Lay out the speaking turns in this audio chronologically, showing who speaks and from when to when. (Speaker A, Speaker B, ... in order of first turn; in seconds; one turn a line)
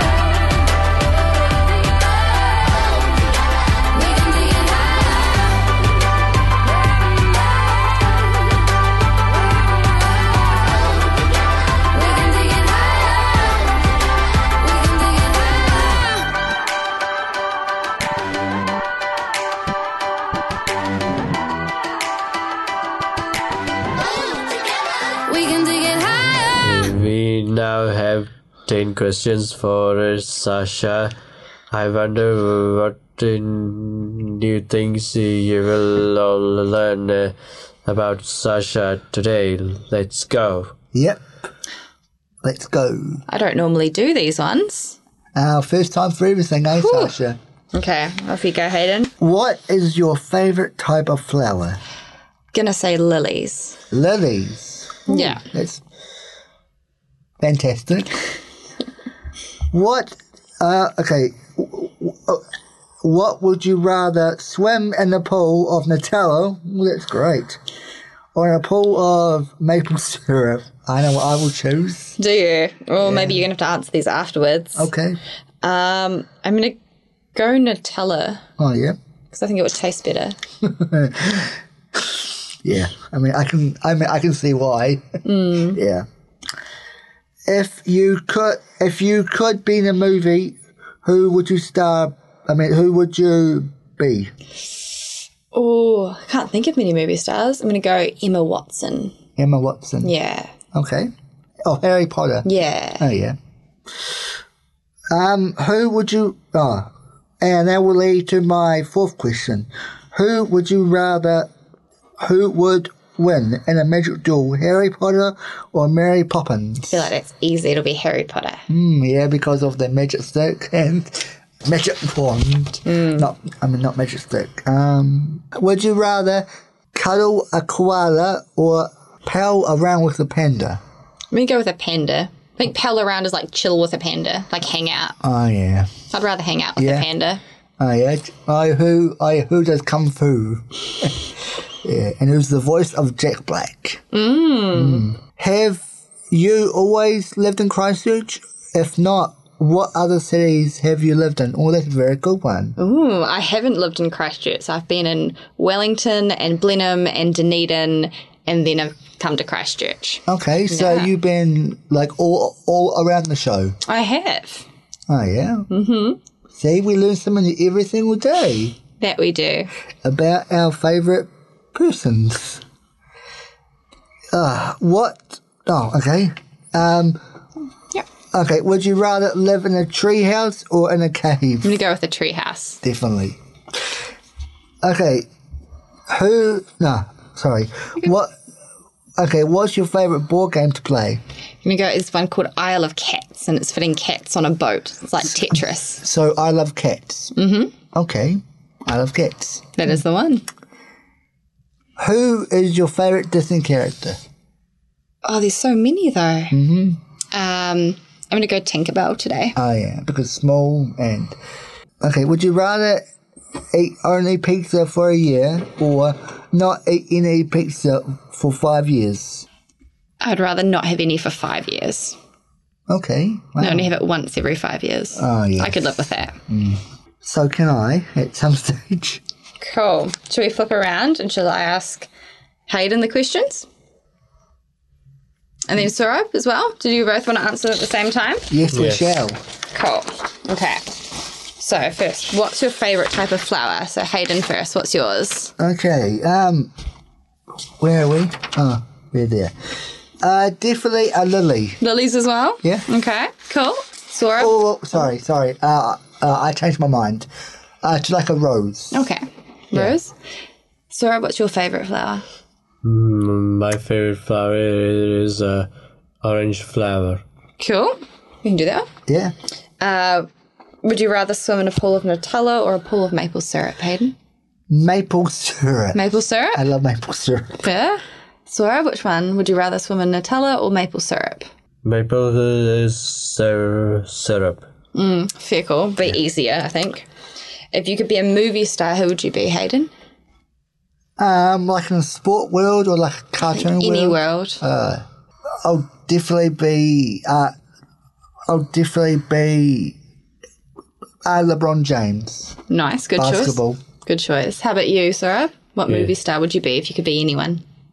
Speaker A: 3.9-5.4
Speaker A: 11.9-13.7
Speaker A: 14.6-16.2
Speaker A: 25.1-26.7
Speaker B: 26.6-31.1
Speaker B: 31.7-40.7
Speaker C: 40.9-41.2
Speaker C: 42.4-43.2
Speaker D: 43.3-45.0
Speaker C: 45.3-47.4
Speaker D: 46.7-47.1
Speaker D: 47.7-49.1
Speaker C: 49.2-51.8
Speaker D: 52.5-53.8
Speaker C: 53.9-55.8
Speaker D: 55.1-55.4
Speaker C: 57.4-58.2
Speaker C: 59.7-62.5
Speaker C: 63.0-67.6
Speaker C: 68.3-72.2
Speaker D: 72.2-74.9
Speaker C: 73.0-73.4
Speaker C: 74.8-75.2
Speaker D: 75.6-76.8
Speaker D: 77.3-78.4
Speaker C: 78.6-79.0
Speaker D: 79.3-80.4
Speaker C: 80.6-86.1
Speaker D: 85.2-85.8
Speaker C: 87.5-94.3
Speaker D: 95.5-99.1
Speaker C: 99.4-100.1
Speaker D: 100.0-100.5
Speaker C: 100.7-101.1
Speaker C: 101.6-103.3
Speaker D: 102.4-103.0
Speaker C: 105.1-111.5
Speaker C: 112.2-117.1
Speaker D: 116.9-118.6
Speaker C: 118.7-130.8
Speaker D: 122.8-123.3
Speaker D: 131.3-135.2
Speaker C: 135.2-135.9
Speaker D: 136.1-137.4
Speaker C: 136.8-137.1
Speaker C: 137.8-144.0
Speaker D: 144.1-145.1
Speaker C: 144.7-152.8
Speaker D: 152.8-161.1
Speaker C: 160.3-163.8
Speaker D: 163.8-164.7
Speaker C: 165.1-165.7
Speaker D: 165.7-166.2
Speaker C: 166.5-168.8
Speaker D: 169.0-169.7
Speaker C: 170.0-172.6
Speaker C: 174.3-177.2
Speaker C: 178.3-181.7
Speaker D: 181.6-182.8
Speaker C: 182.8-183.4
Speaker C: 184.8-185.3
Speaker C: 186.1-188.3
Speaker C: 189.2-191.2
Speaker D: 191.6-196.0
Speaker C: 196.0-197.3
Speaker D: 197.3-197.7
Speaker C: 197.9-199.8
Speaker D: 199.8-200.4
Speaker C: 202.0-204.2
Speaker D: 205.2-206.5
Speaker C: 206.5-207.0
Speaker D: 207.3-209.6
Speaker C: 209.6-211.3
Speaker C: 212.0-213.1
Speaker C: 213.7-219.4
Speaker D: 220.2-222.2
Speaker C: 222.9-223.9
Speaker D: 223.6-226.4
Speaker C: 225.1-225.9
Speaker C: 226.5-229.2
Speaker D: 229.6-232.1
Speaker D: 232.7-233.7
Speaker D: 235.7-238.4
Speaker C: 238.5-239.4
Speaker B: 238.7-239.1
Speaker D: 239.7-245.5
Speaker C: 245.6-246.7
Speaker C: 247.8-249.5
Speaker C: 250.2-251.8
Speaker D: 251.8-254.6
Speaker C: 254.4-257.3
Speaker C: 257.8-259.0
Speaker D: 258.9-260.1
Speaker D: 260.9-262.2
Speaker B: 262.8-265.7
Speaker B: 266.2-267.2
Speaker D: 267.6-268.9
Speaker C: 269.1-269.3
Speaker D: 269.8-270.3
Speaker D: 270.8-274.1
Speaker C: 274.7-276.0
Speaker D: 275.9-276.6
Speaker C: 276.5-277.6
Speaker D: 277.6-281.5
Speaker B: 281.8-284.6
Speaker D: 284.9-287.1
Speaker D: 287.7-289.9
Speaker C: 291.2-295.0
Speaker D: 293.4-294.6
Speaker C: 295.6-297.5
Speaker C: 298.5-300.0
Speaker C: 301.2-302.6
Speaker D: 302.7-307.6
Speaker C: 303.2-303.8